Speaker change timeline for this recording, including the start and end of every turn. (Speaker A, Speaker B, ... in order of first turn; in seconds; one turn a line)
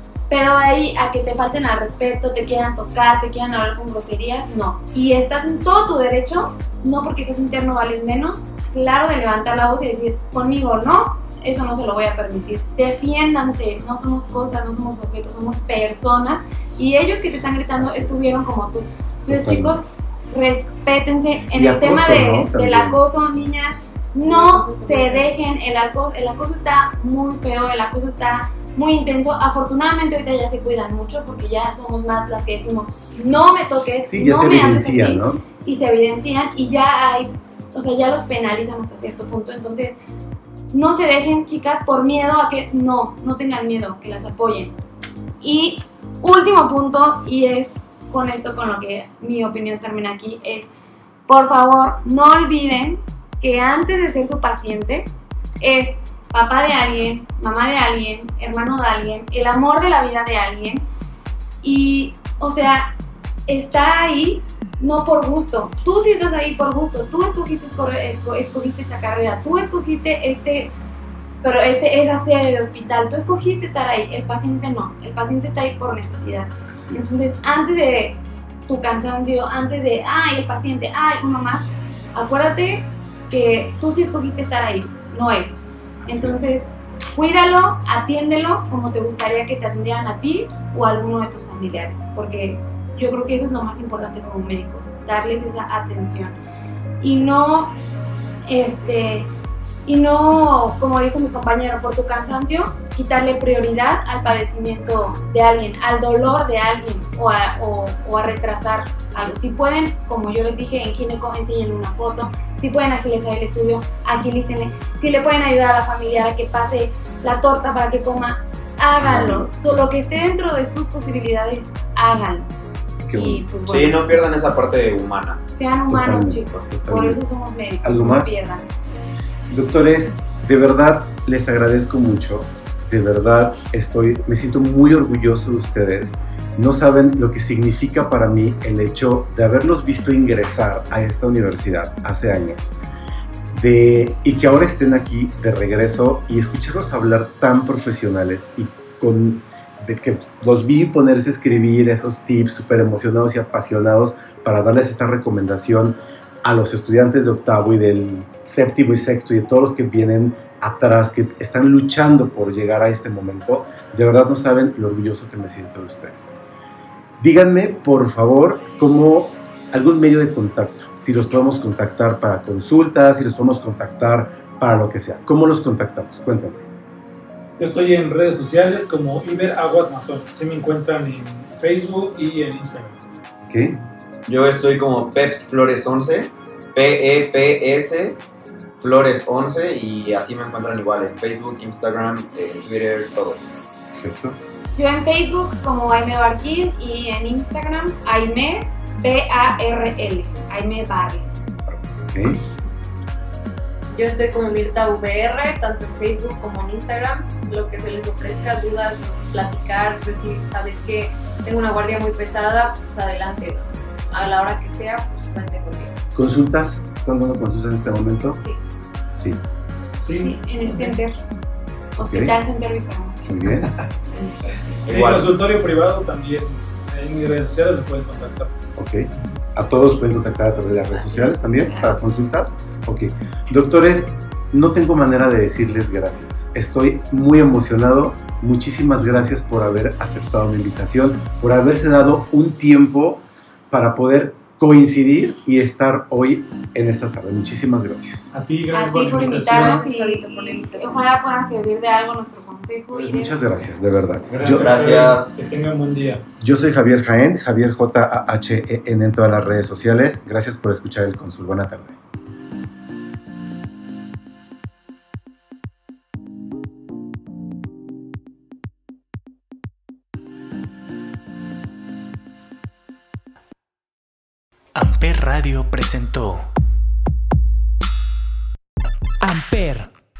Speaker A: 0.3-40.0
Speaker B: 17.8-18.1
Speaker B: 19.2-19.8
Speaker B: 21.5-23.0
Speaker C: 24.3-25.3
Speaker B: 34.1-35.4
Speaker A: 40.7-44.8
Speaker A: 45.4-50.7
Speaker A: 51.3-55.1
Speaker A: 55.6-60.9
Speaker A: 61.6-62.9
Speaker A: 63.5-70.7
Speaker A: 71.4-96.3
Speaker B: 76.7-77.1
Speaker B: 86.0-86.4
Speaker A: 97.0-97.8
Speaker A: 98.5-99.3
Speaker A: 99.8-122.5
Speaker B: 119.0-119.9
Speaker B: 123.0-123.4
Speaker A: 123.1-124.0
Speaker D: 123.7-125.4
Speaker A: 125.5-128.9
Speaker B: 125.9-127.2
Speaker B: 127.8-128.3
Speaker B: 129.5-142.8
Speaker B: 143.5-166.3
Speaker B: 167.2-176.6
Speaker E: 177.6-183.0
Speaker B: 183.4-183.8
Speaker D: 184.3-188.2
Speaker D: 188.8-193.4
Speaker B: 193.9-194.4
Speaker A: 194.8-201.3
Speaker B: 201.7-202.4
Speaker C: 203.9-216.0
Speaker B: 216.1-218.4
Speaker B: 219.2-219.4
Speaker E: 220.0-221.0
Speaker A: 220.1-221.2
Speaker A: 221.9-223.3
Speaker B: 222.0-222.3
Speaker B: 223.2-223.8
Speaker D: 224.9-225.3
Speaker E: 224.9-228.5
Speaker B: 228.8-248.3
Speaker A: 230.9-232.0
Speaker E: 248.3-249.8
Speaker A: 248.7-253.4
Speaker C: 249.1-251.1
Speaker B: 252.9-254.8
Speaker E: 254.3-256.2
Speaker D: 254.5-255.3
Speaker B: 256.4-262.0
Speaker F: 274.7-276.5
Speaker F: 279.2-279.9